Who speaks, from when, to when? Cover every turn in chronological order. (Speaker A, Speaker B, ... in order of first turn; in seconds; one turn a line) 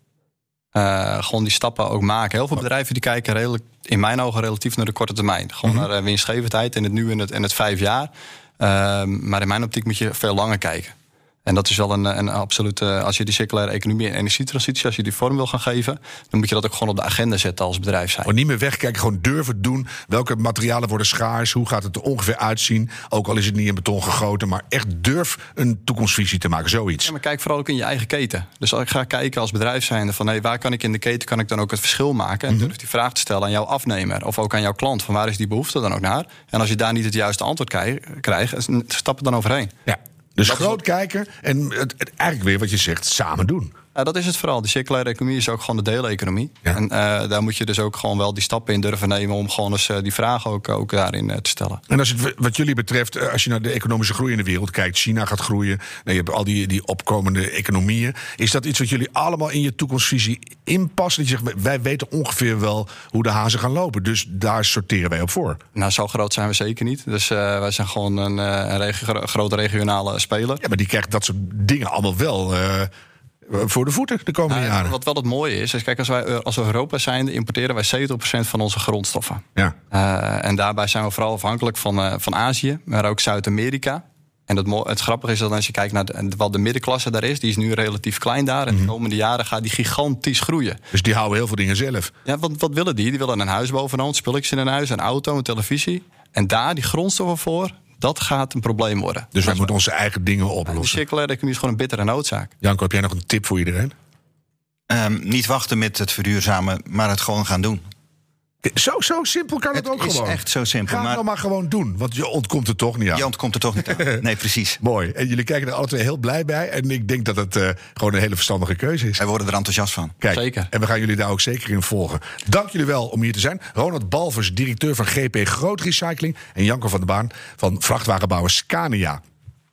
Speaker A: 0.7-18.3
Speaker B: 18.2-27.1
Speaker A: 27.1-39.7
Speaker B: 39.9-43.7
Speaker A: 40.5-40.8
Speaker A: 44.0-51.8
Speaker B: 51.9-65.6
Speaker A: 65.7-70.6
Speaker B: 70.6-72.9
Speaker B: 73.5-74.9
Speaker A: 74.5-90.8
Speaker B: 90.9-92.1
Speaker A: 92.3-99.7
Speaker B: 99.3-101.0
Speaker A: 100.7-102.5
Speaker B: 102.6-104.0
Speaker C: 104.9-107.8
Speaker B: 108.6-113.3
Speaker C: 109.7-111.2
Speaker C: 113.1-114.8
Speaker B: 113.9-114.2
Speaker B: 114.8-119.2
Speaker C: 119.2-120.2
Speaker B: 120.2-129.2
Speaker A: 120.3-120.7